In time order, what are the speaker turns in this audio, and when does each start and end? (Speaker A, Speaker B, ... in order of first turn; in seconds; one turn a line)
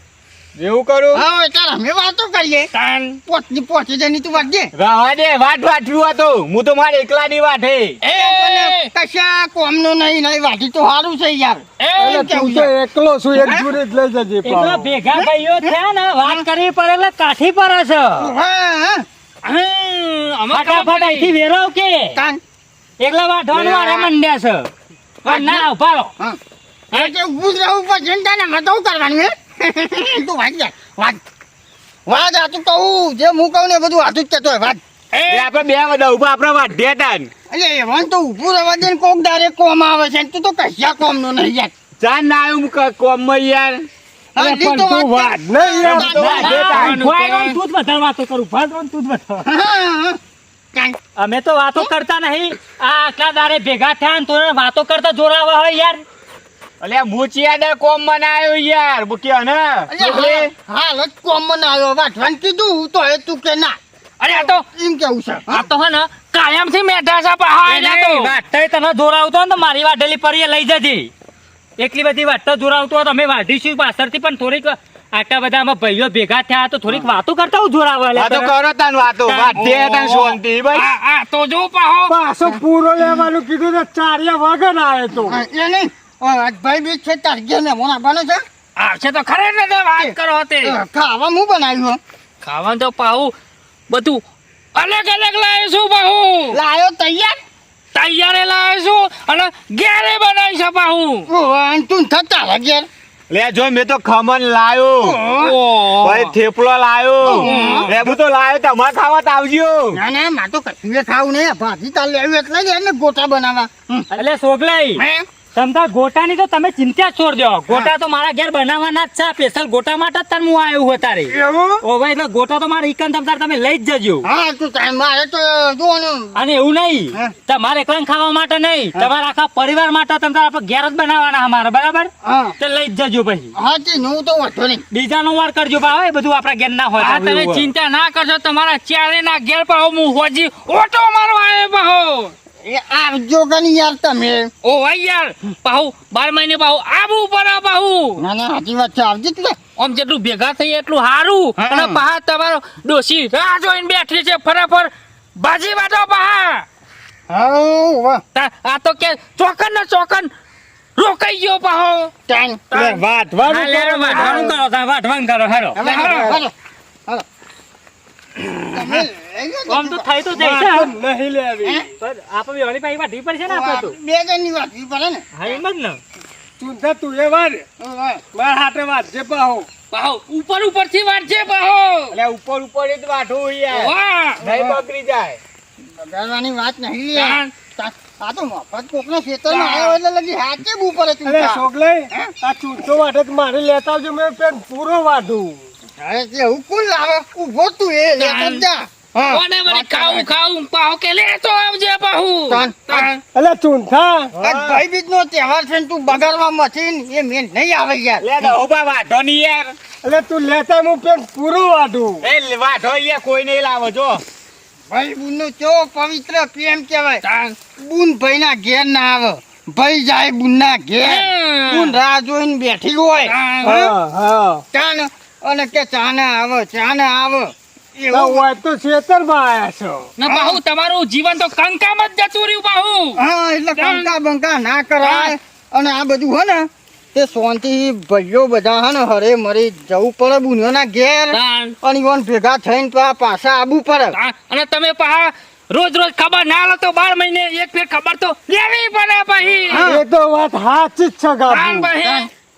Speaker A: 0.6-1.2
Speaker B: 1.1-2.7
Speaker C: 2.7-3.2
Speaker B: 3.3-4.7
Speaker A: 4.8-8.0
Speaker C: 8.0-8.9
Speaker B: 8.1-12.7
Speaker C: 11.8-12.3
Speaker D: 12.0-14.9
Speaker B: 13.3-13.7
Speaker E: 14.4-18.3
Speaker B: 15.1-16.4
Speaker B: 18.2-19.1
Speaker C: 19.4-21.3
Speaker E: 20.5-22.2
Speaker B: 22.1-22.4
Speaker E: 23.0-24.7
Speaker B: 23.5-24.1
Speaker E: 25.2-26.1
Speaker B: 25.3-25.6
Speaker B: 26.9-31.2
Speaker B: 32.1-34.8
Speaker C: 35.1-35.5
Speaker A: 35.3-37.3
Speaker B: 37.5-41.7
Speaker A: 42.0-43.9
Speaker B: 44.4-46.8
Speaker D: 44.4-46.1
Speaker A: 45.8-47.0
Speaker E: 45.8-49.5
Speaker C: 46.4-47.6
Speaker B: 49.5-50.2
Speaker E: 51.2-56.0
Speaker A: 56.8-60.5
Speaker B: 59.9-63.8
Speaker C: 64.2-64.6
Speaker B: 64.3-65.7
Speaker C: 65.5-68.4
Speaker E: 67.7-71.1
Speaker E: 71.8-78.5
Speaker A: 78.2-80.9
Speaker C: 79.2-82.1
Speaker D: 82.1-85.4
Speaker B: 82.4-83.2
Speaker B: 85.3-88.4
Speaker C: 88.8-90.8
Speaker B: 90.0-92.0
Speaker C: 92.4-93.3
Speaker C: 93.9-94.2
Speaker C: 94.8-96.6
Speaker B: 96.5-97.3
Speaker C: 97.9-101.3
Speaker B: 101.3-102.9
Speaker A: 103.3-105.2
Speaker B: 105.0-105.6
Speaker C: 105.3-106.4
Speaker A: 106.0-110.0
Speaker C: 107.2-107.9
Speaker B: 107.2-107.9
Speaker B: 109.9-114.1
Speaker E: 114.1-115.0
Speaker B: 115.0-115.2
Speaker E: 115.5-124.2
Speaker B: 121.3-121.8
Speaker B: 124.2-126.4
Speaker E: 126.3-133.5
Speaker B: 132.2-132.6
Speaker B: 133.6-134.8
Speaker E: 134.9-137.7
Speaker C: 137.0-142.3
Speaker B: 142.7-144.5
Speaker C: 144.6-148.2
Speaker B: 148.2-149.6
Speaker C: 149.8-156.7
Speaker B: 151.6-152.0
Speaker B: 157.3-158.2
Speaker C: 158.3-160.3
Speaker C: 161.0-162.1
Speaker B: 162.3-162.7
Speaker C: 162.7-163.1
Speaker D: 162.8-164.5
Speaker E: 163.4-165.8
Speaker C: 164.1-164.6
Speaker C: 165.7-166.4
Speaker B: 165.8-166.5
Speaker B: 168.7-170.1
Speaker E: 169.7-170.9
Speaker D: 170.3-171.8
Speaker B: 171.6-171.9
Speaker E: 172.0-173.9
Speaker B: 173.5-175.3
Speaker E: 175.3-176.0
Speaker D: 176.6-177.7
Speaker B: 177.8-178.2
Speaker D: 178.3-179.7
Speaker C: 179.9-182.2
Speaker A: 182.1-185.4
Speaker C: 183.7-184.4
Speaker B: 184.4-184.8
Speaker B: 185.9-192.3
Speaker C: 187.1-187.5
Speaker C: 189.5-190.0
Speaker D: 191.2-195.7
Speaker B: 196.0-200.3
Speaker C: 198.2-198.7
Speaker C: 199.3-203.2
Speaker B: 202.5-203.1
Speaker D: 203.3-204.3
Speaker A: 204.4-204.8
Speaker B: 204.4-208.4
Speaker A: 208.2-209.8
Speaker D: 210.0-212.2
Speaker A: 212.2-214.2
Speaker B: 214.9-217.2
Speaker C: 217.2-217.6
Speaker B: 217.8-224.0
Speaker C: 221.0-222.0
Speaker C: 223.2-223.8
Speaker D: 223.7-224.6
Speaker B: 224.7-228.5
Speaker D: 228.1-230.1
Speaker C: 230.2-233.2
Speaker B: 230.3-230.6
Speaker B: 233.2-244.2
Speaker C: 233.8-234.1
Speaker C: 235.0-235.3
Speaker C: 241.3-241.8
Speaker C: 244.1-249.9
Speaker B: 249.7-250.1
Speaker D: 249.9-251.9
Speaker C: 251.5-252.3
Speaker B: 252.0-252.3